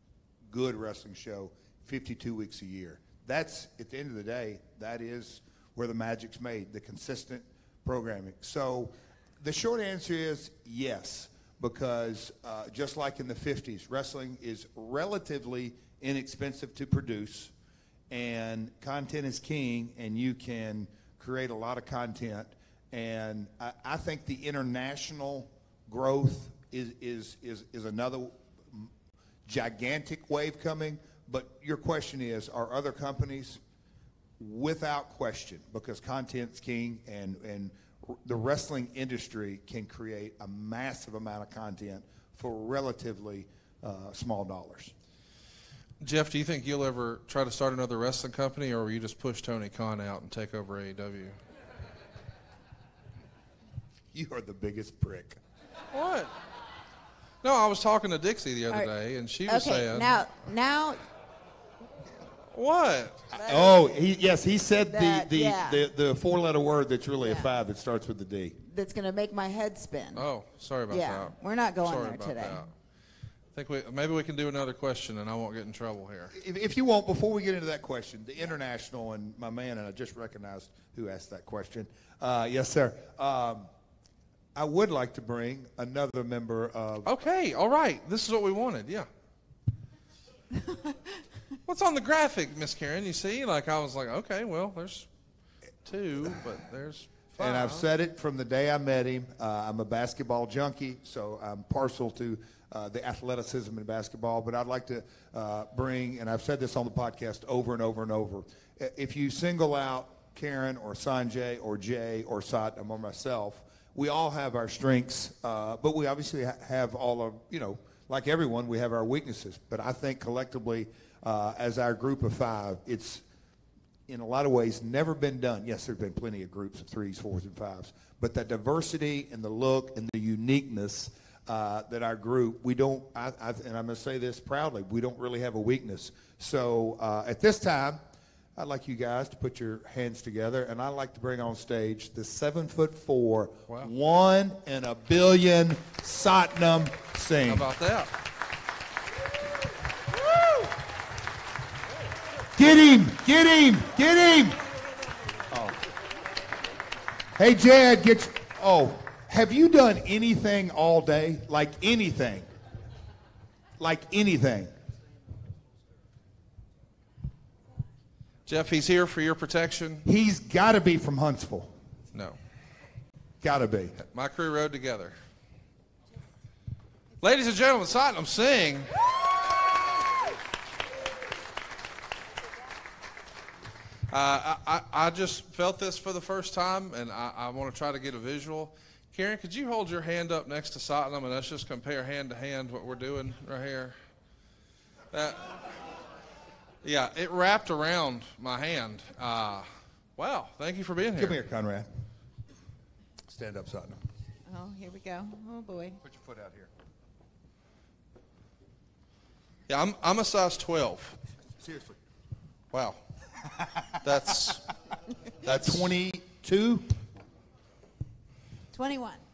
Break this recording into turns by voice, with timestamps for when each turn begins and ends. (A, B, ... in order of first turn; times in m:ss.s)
0:00.5-0:17.5 A
0:18.1-0:28.9 A
0:29.4-0:33.6 A
0:34.4-0:44.9 A
0:46.0-0:51.4 B
0:54.1-0:55.4 A
0:55.9-0:56.3 B
0:57.4-1:00.2 B
0:59.5-1:01.0 C
1:02.5-1:03.2 B
1:03.3-1:03.9 C
1:03.4-1:08.6 A
1:04.9-1:05.8 C
1:07.2-1:07.5 C
1:08.6-1:10.3 C
1:10.1-1:12.7 B
1:10.9-1:12.6 C
1:13.5-1:16.3 B
1:16.3-1:23.7 A
1:24.5-1:27.1 A
1:27.0-1:29.1 B
1:31.6-1:35.1 B
1:35.8-1:37.9 B
1:37.4-2:03.2 A
2:04.1-2:18.0 A
2:18.6-2:27.6 A
2:27.5-2:28.1 B
2:32.6-2:34.6 A
2:35.5-2:35.8 A
2:37.4-2:42.5 A
2:43.8-2:44.7 A
2:48.4-2:50.0 B
2:50.0-2:51.7 A
2:53.4-2:54.0 A
2:54.1-2:55.2 B
2:57.2-2:58.9 B
3:04.1-3:14.0 B
3:15.1-3:15.5 B
3:16.8-3:21.4 B
3:21.2-3:21.9 A
3:23.3-3:24.0 A
3:24.5-3:26.0 C
3:26.0-3:26.7 A
3:29.7-3:31.2 B
3:31.6-3:32.0 A
3:32.7-3:33.0 B
3:34.0-3:34.6 B
3:35.4-3:36.9 A
3:38.7-3:39.2 C